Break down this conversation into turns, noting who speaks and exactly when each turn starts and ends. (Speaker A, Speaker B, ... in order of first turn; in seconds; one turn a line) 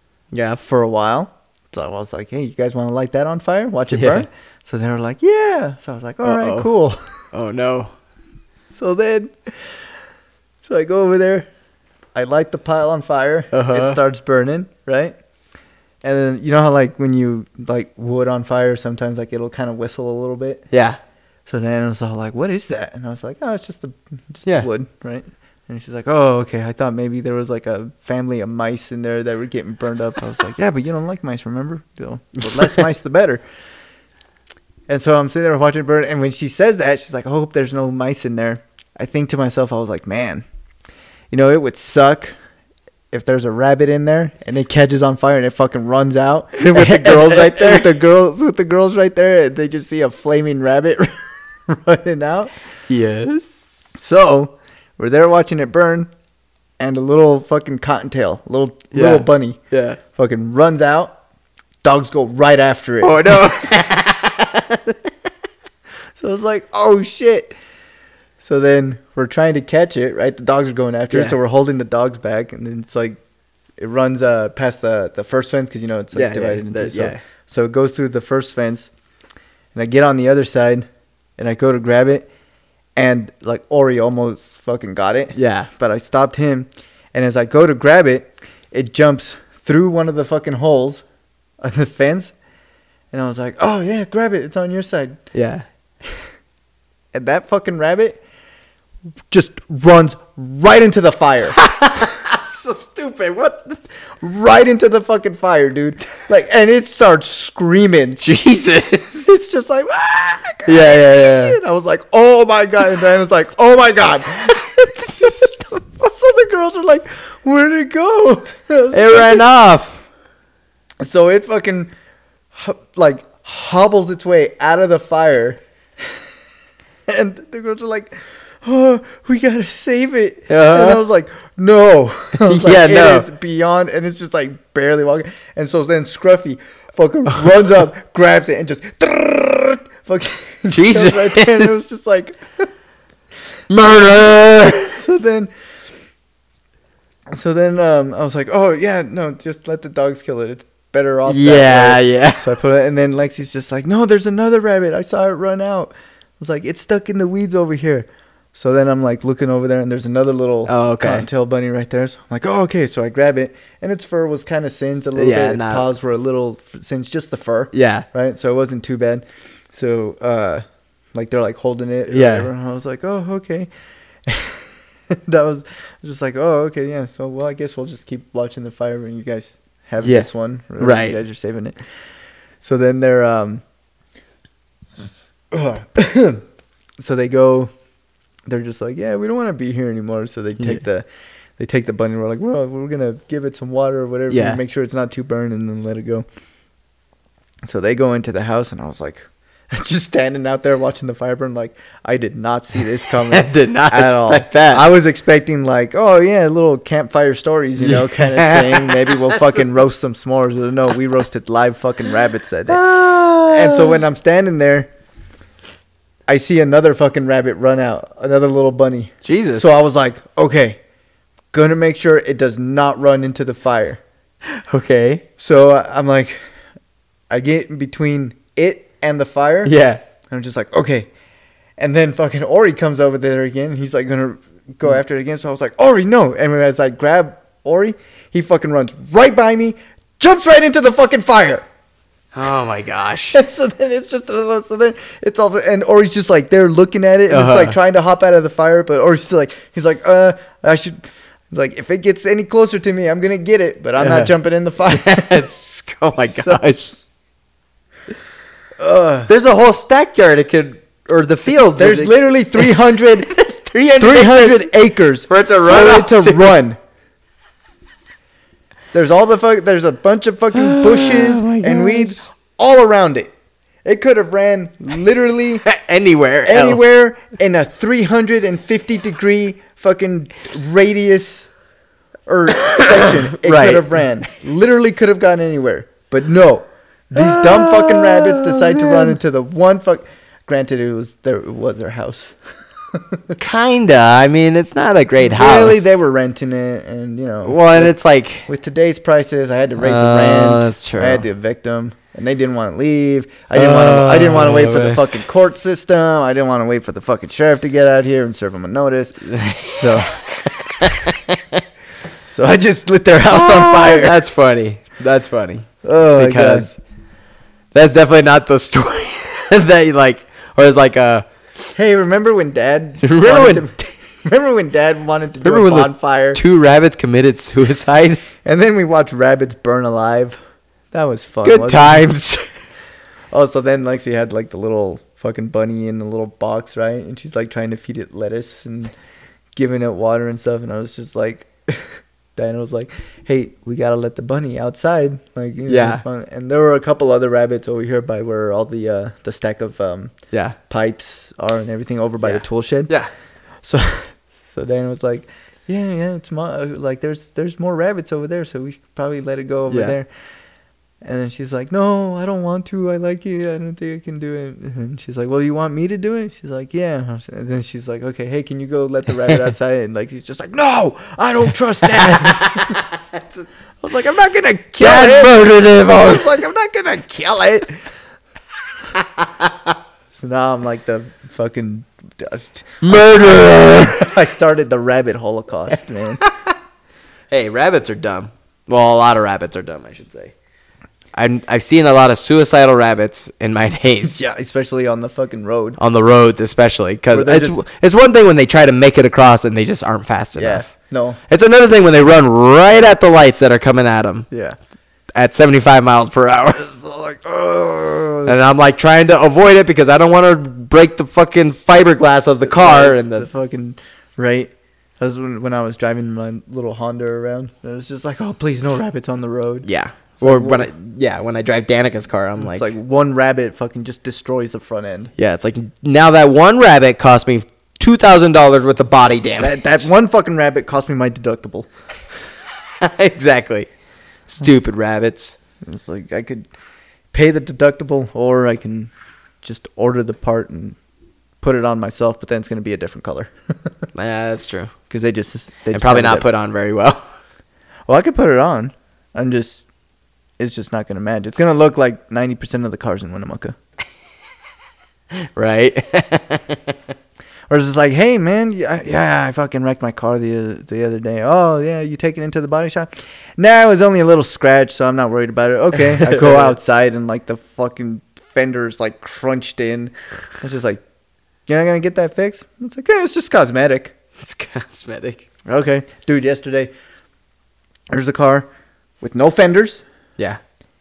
Speaker A: 0.3-0.6
Speaker B: 0.6-7.0
Speaker A: 3.9-4.3
Speaker A: 6.2-6.7
Speaker A: 7.3-7.9
Speaker B: 8.7-9.6
Speaker B: 10.6-11.5
Speaker B: 12.2-15.2
Speaker A: 13.5-14.0
Speaker B: 16.0-20.6
Speaker A: 20.7-21.0
Speaker B: 21.5-33.4
Speaker B: 34.9-40.4
Speaker B: 41.3-42.3
Speaker B: 43.1-51.1
Speaker A: 46.5-47.9
Speaker B: 51.7-52.5
Speaker A: 52.9-53.9
Speaker B: 53.9-56.1
Speaker B: 56.8-59.6
Speaker A: 58.9-60.0
Speaker B: 60.1-61.2
Speaker B: 61.8-63.6
Speaker A: 63.0-65.1
Speaker B: 66.2-67.5
Speaker B: 68.4-73.2
Speaker A: 71.1-71.4
Speaker B: 73.8-78.9
Speaker A: 76.1-77.2
Speaker B: 79.7-80.9
Speaker B: 81.4-82.3
Speaker B: 83.0-91.0
Speaker A: 85.3-85.7
Speaker B: 91.6-92.3
Speaker B: 93.1-95.2
Speaker A: 95.3-95.7
Speaker B: 97.1-98.2
Speaker B: 99.3-101.6
Speaker A: 101.6-103.8
Speaker B: 104.2-108.2
Speaker A: 108.2-109.2
Speaker B: 109.2-119.5
Speaker A: 110.7-111.6
Speaker A: 115.2-115.6
Speaker A: 118.9-120.0
Speaker B: 121.0-121.9
Speaker B: 122.5-125.6
Speaker B: 127.1-142.4
Speaker A: 130.5-131.0
Speaker A: 132.4-133.3
Speaker A: 140.7-141.7
Speaker A: 143.7-145.0
Speaker B: 144.8-145.5
Speaker B: 147.3-170.6
Speaker A: 151.3-152.5
Speaker A: 160.7-161.3
Speaker A: 165.2-165.8
Speaker A: 167.7-168.1
Speaker B: 171.1-173.7
Speaker A: 172.1-172.5
Speaker B: 174.3-181.8
Speaker A: 180.0-181.2
Speaker B: 182.6-183.6
Speaker B: 185.5-186.4
Speaker B: 187.0-187.7
Speaker B: 188.5-191.1
Speaker B: 191.6-196.3
Speaker A: 194.3-194.6
Speaker B: 197.7-214.9
Speaker A: 203.2-204.8
Speaker A: 207.8-209.6
Speaker A: 212.7-214.0
Speaker B: 216.3-220.8
Speaker A: 219.2-219.7
Speaker B: 221.5-224.0
Speaker A: 224.5-225.2
Speaker B: 225.4-226.4
Speaker B: 227.3-229.7
Speaker A: 229.7-230.0
Speaker B: 230.3-231.1
Speaker B: 231.8-241.7
Speaker A: 242.3-243.4
Speaker B: 243.3-255.4
Speaker A: 247.3-247.8
Speaker A: 254.0-254.3
Speaker A: 254.9-257.0
Speaker B: 256.3-256.6
Speaker B: 258.8-259.3
Speaker A: 259.3-264.7
Speaker B: 261.7-263.3
Speaker B: 264.0-266.8
Speaker A: 265.3-266.6
Speaker B: 268.9-273.3
Speaker A: 270.5-272.2
Speaker B: 273.9-275.6
Speaker A: 275.6-276.9
Speaker B: 276.5-281.5
Speaker B: 282.3-292.4
Speaker A: 282.7-284.0
Speaker A: 287.2-289.2
Speaker B: 292.9-293.4
Speaker A: 293.4-295.9
Speaker B: 295.3-297.9
Speaker A: 297.4-298.5
Speaker B: 298.5-310.2
Speaker A: 299.8-301.2
Speaker A: 303.5-305.2
Speaker A: 309.2-311.6
Speaker B: 312.3-314.2
Speaker A: 313.3-316.8
Speaker B: 315.8-316.7
Speaker A: 317.7-321.3
Speaker B: 321.8-326.4
Speaker A: 323.0-323.9
Speaker A: 325.4-328.2
Speaker B: 328.4-330.4
Speaker B: 330.9-332.1
Speaker A: 331.4-332.5
Speaker B: 333.3-338.9
Speaker B: 339.6-350.1
Speaker A: 345.7-346.0
Speaker A: 350.3-350.6
Speaker B: 350.7-352.9
Speaker A: 352.2-353.1
Speaker B: 353.6-360.1
Speaker A: 359.7-359.9
Speaker B: 361.0-372.8
Speaker A: 371.8-373.2
Speaker B: 373.8-377.8
Speaker A: 374.8-376.4
Speaker A: 379.0-379.5
Speaker B: 380.1-386.2
Speaker A: 382.8-384.2
Speaker A: 385.7-386.5
Speaker A: 387.3-390.3
Speaker A: 391.1-394.2
Speaker B: 394.1-395.8
Speaker A: 395.8-400.7
Speaker B: 397.1-397.6
Speaker B: 400.4-401.2
Speaker A: 401.3-404.3
Speaker B: 404.3-404.6
Speaker A: 405.1-406.6
Speaker B: 406.6-408.4
Speaker A: 408.3-413.3
Speaker B: 412.5-419.7
Speaker A: 419.6-422.7
Speaker B: 420.2-420.7
Speaker B: 422.4-425.1
Speaker A: 425.2-429.6
Speaker B: 429.4-431.7
Speaker A: 432.8-433.7
Speaker A: 434.3-435.4
Speaker B: 435.6-436.5
Speaker B: 437.1-438.9
Speaker B: 439.4-440.8
Speaker B: 441.4-443.3
Speaker A: 443.9-444.7
Speaker B: 444.9-446.3
Speaker A: 445.7-447.1
Speaker B: 447.9-449.6
Speaker B: 450.4-453.6
Speaker A: 455.1-456.8
Speaker B: 457.5-470.8
Speaker A: 465.9-466.6
Speaker B: 471.5-473.9
Speaker A: 474.2-475.3
Speaker B: 475.5-476.7
Speaker B: 477.9-478.5
Speaker B: 479.0-479.8